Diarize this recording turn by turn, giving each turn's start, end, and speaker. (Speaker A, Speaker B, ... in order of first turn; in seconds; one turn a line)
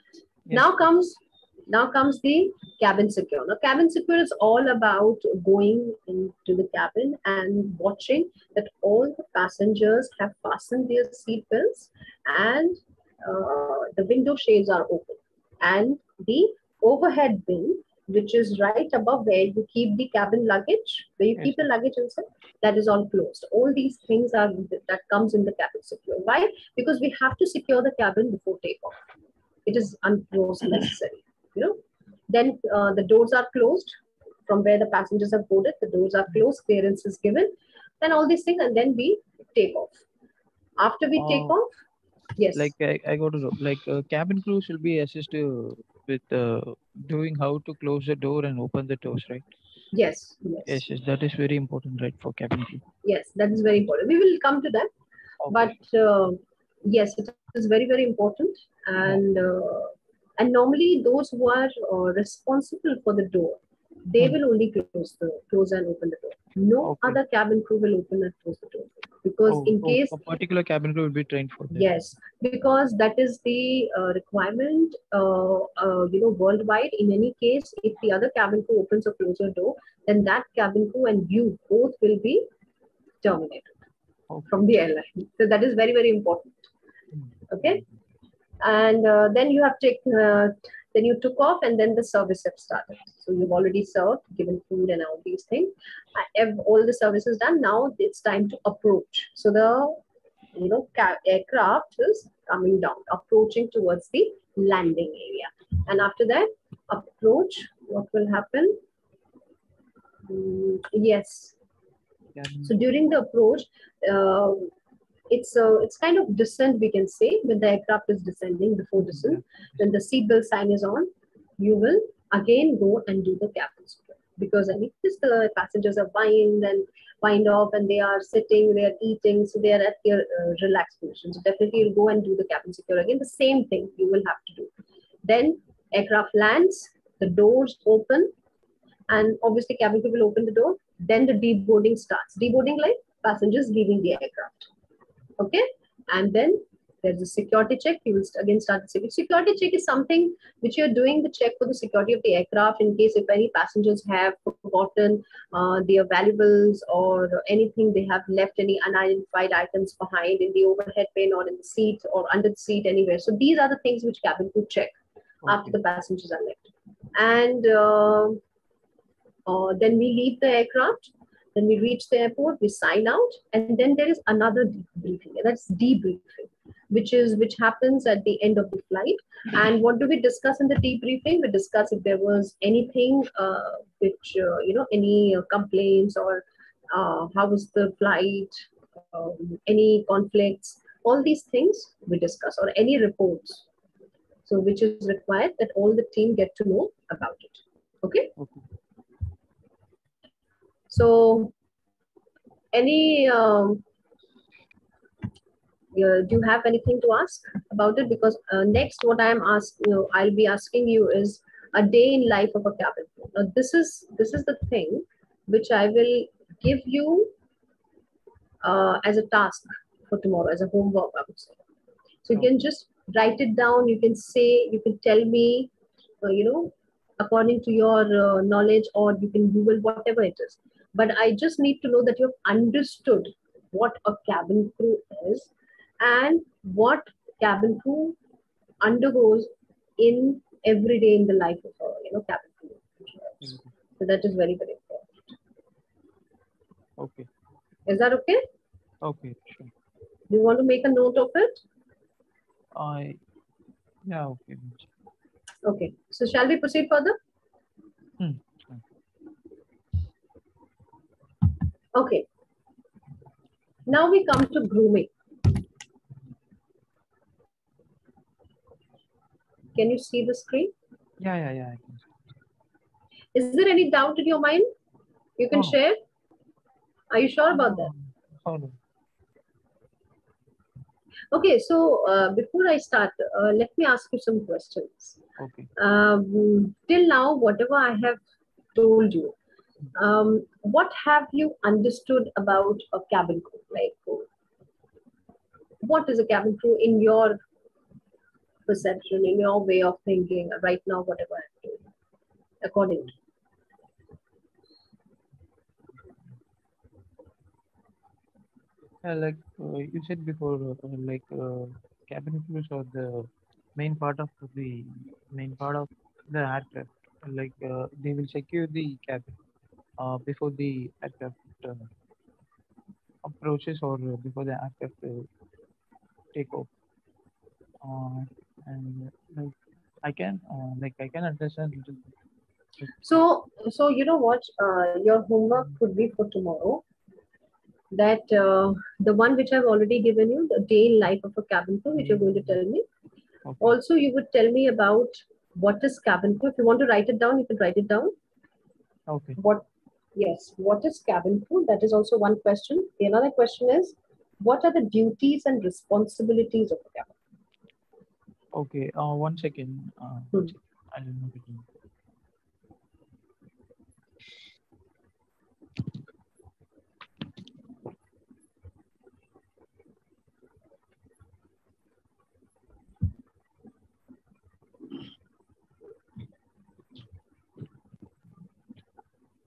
Speaker A: 0.5-0.7
Speaker B: 0.5-29.0
Speaker B: 29.6-33.9
Speaker B: 34.5-40.0
Speaker B: 40.8-41.7
Speaker A: 41.1-41.5
Speaker B: 42.4-42.7
Speaker A: 42.5-49.5
Speaker B: 49.9-50.8
Speaker A: 50.6-52.8
Speaker B: 53.0-54.9
Speaker A: 55.4-55.7
Speaker B: 55.5-70.2
Speaker A: 66.8-67.2
Speaker A: 69.5-71.9
Speaker B: 71.7-82.5
Speaker B: 83.2-83.7
Speaker B: 84.5-86.7
Speaker A: 87.2-87.8
Speaker B: 87.5-87.8
Speaker B: 88.6-100.0
Speaker B: 100.5-108.8
Speaker B: 110.3-111.5
Speaker A: 112.3-112.7
Speaker B: 112.6-114.7
Speaker B: 115.3-134.7
Speaker A: 119.0-119.8
Speaker B: 135.2-138.3
Speaker B: 139.1-144.7
Speaker B: 145.4-164.9
Speaker A: 165.4-165.7
Speaker B: 165.4-166.6
Speaker B: 167.1-168.4
Speaker B: 169.4-193.6
Speaker B: 194.4-198.3
Speaker A: 198.4-198.6
Speaker B: 200.9-201.5
Speaker B: 202.7-203.8
Speaker B: 205.9-217.3
Speaker B: 218.6-221.5
Speaker B: 222.2-225.7
Speaker B: 226.2-238.2
Speaker B: 238.8-245.3
Speaker A: 243.4-243.7
Speaker A: 247.0-247.3
Speaker B: 247.9-248.4
Speaker A: 249.0-249.7
Speaker B: 250.3-251.6
Speaker A: 252.7-253.2
Speaker A: 254.0-254.9
Speaker B: 255.6-257.1
Speaker A: 258.2-258.8
Speaker B: 261.9-262.2
Speaker B: 263.9-265.1
Speaker B: 269.8-270.7
Speaker A: 271.2-272.2
Speaker B: 273.3-274.7
Speaker B: 275.4-276.0
Speaker A: 275.5-275.8
Speaker B: 277.1-277.9
Speaker A: 277.5-278.8
Speaker B: 281.3-285.2
Speaker A: 285.4-285.7
Speaker B: 285.8-288.2
Speaker B: 288.7-289.3
Speaker B: 289.9-294.2
Speaker B: 295.8-297.4
Speaker B: 298.7-301.8
Speaker B: 302.6-303.1
Speaker A: 309.0-319.4
Speaker A: 320.0-321.9
Speaker A: 323.2-325.3
Speaker A: 326.3-326.7
Speaker A: 327.8-332.1
Speaker A: 332.8-333.2
Speaker B: 333.0-336.8
Speaker B: 337.9-342.8
Speaker A: 342.0-342.5
Speaker A: 343.4-343.8
Speaker B: 343.6-348.1
Speaker A: 349.1-349.4
Speaker B: 349.4-357.1
Speaker A: 358.5-361.6